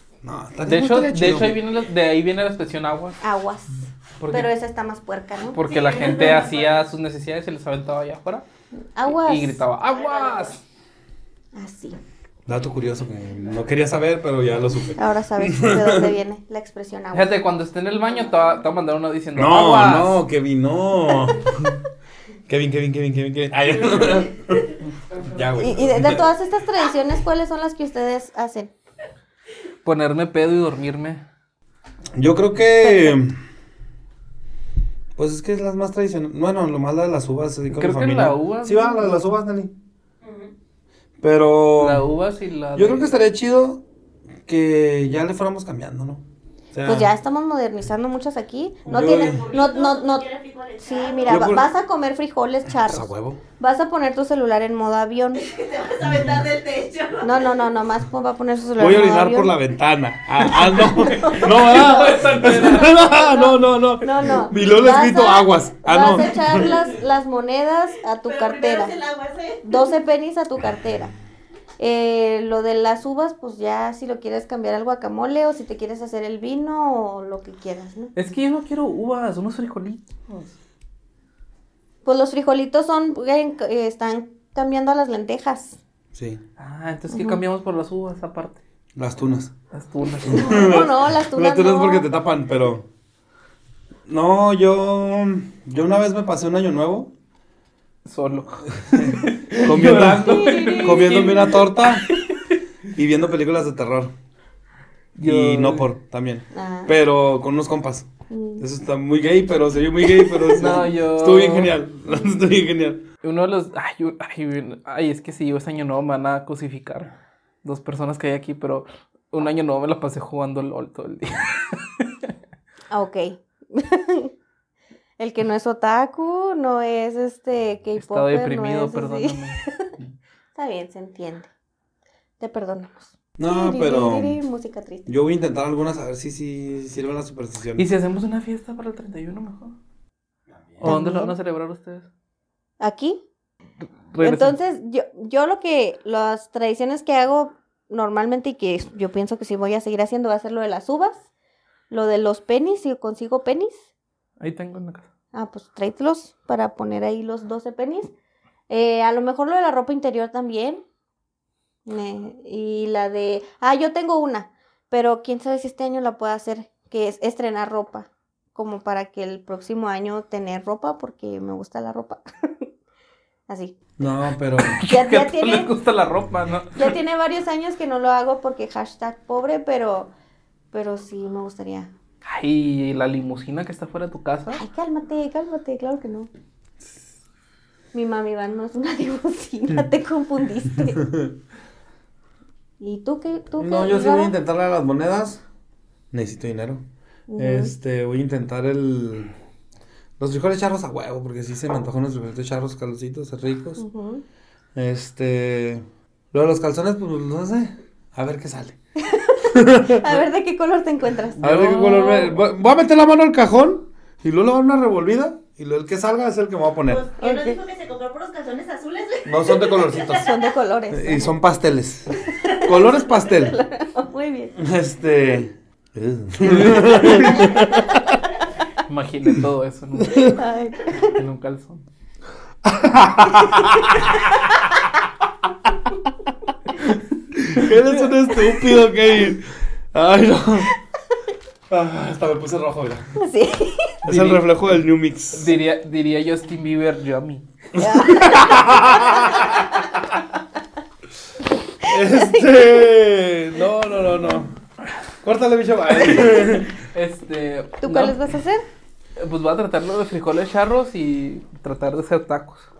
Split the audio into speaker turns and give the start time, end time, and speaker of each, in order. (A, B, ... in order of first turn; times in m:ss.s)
0:00.2-0:01.6 A
0:00.6-0:03.2 B
0:03.2-0:05.6 C
0:04.2-0:04.5 B
0:05.5-0:08.4 B
0:05.6-0:06.9 D
0:08.9-0:09.6 C
0:09.3-0:10.6 B
0:09.9-0:10.5 D
0:11.5-0:12.0 C
0:12.4-0:16.1 A
0:15.0-0:17.4 C
0:17.1-0:20.2 B
0:19.4-0:21.8 A
0:22.5-0:26.2 A
0:25.6-0:28.7 C
0:29.8-0:31.2 B
0:32.1-0:33.4 A
0:32.8-0:33.2 C
0:35.2-0:39.7 A
0:37.7-0:39.3 B
0:40.2-0:40.5 D
0:41.2-0:42.1 A
0:41.8-0:43.2 B
0:42.7-0:43.8 A
0:44.4-0:47.1 A
0:46.8-0:50.3 C
0:48.8-0:51.6 D
0:48.9-0:49.4 A
0:50.8-0:55.4 C
0:51.3-0:51.6 A
0:52.9-0:53.4 A
0:55.4-0:57.5 D
0:57.2-0:59.5 C
0:58.8-1:06.7 A
1:00.5-1:03.6 B
1:01.2-1:01.8 C
1:02.9-1:09.0 C
1:06.5-1:06.8 D
1:08.2-1:09.8 D
1:09.6-1:11.1 C
1:11.8-1:18.1 C
1:18.2-1:20.5 B
1:22.0-1:25.8 C
1:26.1-1:26.4 A
1:26.6-1:28.6 B
1:27.1-1:27.4 C
1:29.0-1:29.5 A
1:29.7-1:30.5 B
1:30.2-1:32.8 A
1:30.3-1:32.1 C
1:34.1-1:37.1 A
1:38.0-1:42.6 B
1:38.8-1:42.1 A
1:40.5-1:40.9 C
1:42.9-1:44.1 A
1:45.2-1:45.9 B
1:45.2-1:48.1 A
1:46.5-1:46.9 C
1:48.3-1:48.6 C
1:48.6-1:53.0 A
1:50.4-1:51.8 B
1:53.2-2:02.3 B
2:02.9-2:04.3 C
2:05.2-2:09.9 C
2:08.0-2:09.6 B
2:10.5-2:11.5 C
2:12.4-2:15.1 C
2:13.4-2:14.4 A
2:15.0-2:17.8 A
2:17.8-2:19.8 B
2:20.8-2:22.1 B
2:20.8-2:21.3 C
2:22.8-2:23.2 C
2:24.1-2:24.6 B
2:24.2-2:31.2 C
2:31.9-2:33.8 C
2:34.4-2:35.0 B
2:35.3-2:38.1 C
2:38.7-2:40.8 C
2:41.8-2:52.7 C
2:53.5-2:53.8 C
2:54.0-2:54.8 A
2:54.6-2:57.0 B
2:54.8-2:55.7 C
2:56.7-3:00.1 C
3:00.7-3:01.9 C
3:02.2-3:04.6 B
3:04.6-3:06.3 C
3:07.9-3:11.0 C
3:11.0-3:11.3 A
3:12.8-3:14.3 C
3:13.6-3:15.4 A
3:16.1-3:16.8 A
3:17.3-3:17.7 C
3:17.4-3:19.3 A
3:20.2-3:23.8 A
3:23.8-3:24.2 C
3:24.7-3:28.8 A
3:29.0-3:32.4 C
3:29.4-3:30.0 A
3:31.4-3:31.9 B
3:31.4-3:37.0 A
3:36.9-3:40.2 D
3:37.2-3:37.6 C
3:39.2-3:40.3 A
3:40.1-3:41.3 C
3:40.9-3:43.6 A
3:42.4-3:44.6 C
3:44.6-3:48.2 A
3:46.4-3:47.5 B
3:48.9-3:50.4 B
3:50.0-3:50.3 A
3:50.3-3:51.2 C
3:51.0-3:51.8 B
3:52.6-3:54.3 A
3:57.3-4:00.7 A
4:01.7-4:03.2 A
4:03.2-4:04.0 C
4:04.0-4:05.5 A
4:04.0-4:04.6 B
4:05.3-4:07.4 B
4:07.8-4:09.6 C
4:07.8-4:09.8 A
4:11.8-4:14.6 A
4:11.8-4:12.6 C
4:15.2-4:16.7 A
4:16.8-4:18.2 B
4:17.8-4:18.6 C
4:19.2-4:22.7 B